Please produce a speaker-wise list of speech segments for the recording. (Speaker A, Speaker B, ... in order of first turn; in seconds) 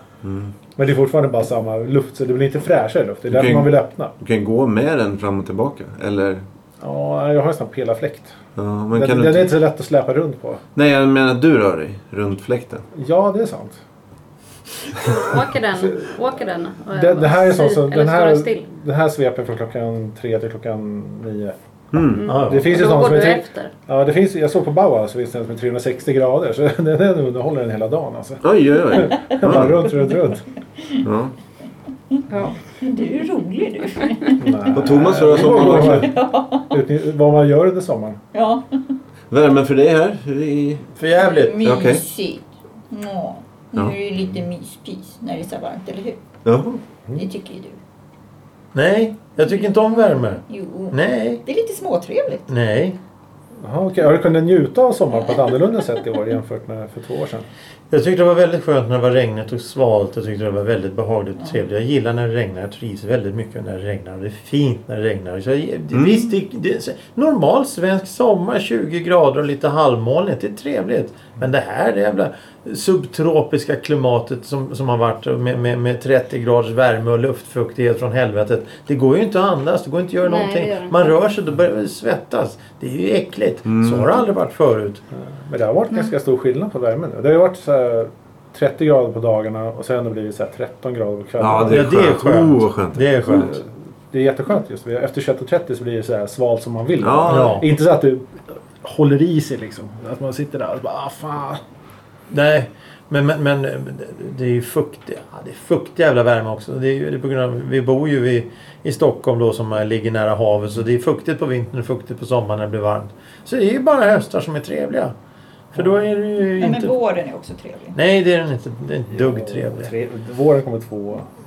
Speaker A: 0.2-0.5, 3.3-6.4, 8.6-9.5, 10.8-12.8, 21.9-22.4, 28.4-29.8, 31.0-31.3, 34.7-36.1, 39.3-40.9, 41.6-42.0, 46.4-46.8, 65.9-66.3, 83.7-84.1, 91.4-93.5, 97.0-97.6
Speaker B: 0.8-4.1, 6.8-8.4, 8.9-10.6, 12.9-13.8, 15.8-16.1, 16.9-21.6, 22.4-30.4, 34.4-38.2, 53.6-57.5, 85.1-91.9, 93.3-101.6, 119.1-121.2
Speaker C: 15.0-18.6, 22.1-23.7, 80.2-81.2
Speaker D: 22.2-22.8, 41.0-41.9, 48.7-51.4, 52.5-53.0, 57.9-85.0, 91.7-93.6, 97.3-97.7, 102.3-115.1, 115.7-116.9, 117.9-119.9
Speaker E: 32.8-34.9, 35.4-36.8, 38.3-38.8, 41.2-46.4, 47.1-47.8, 49.5-52.5, 116.5-118.0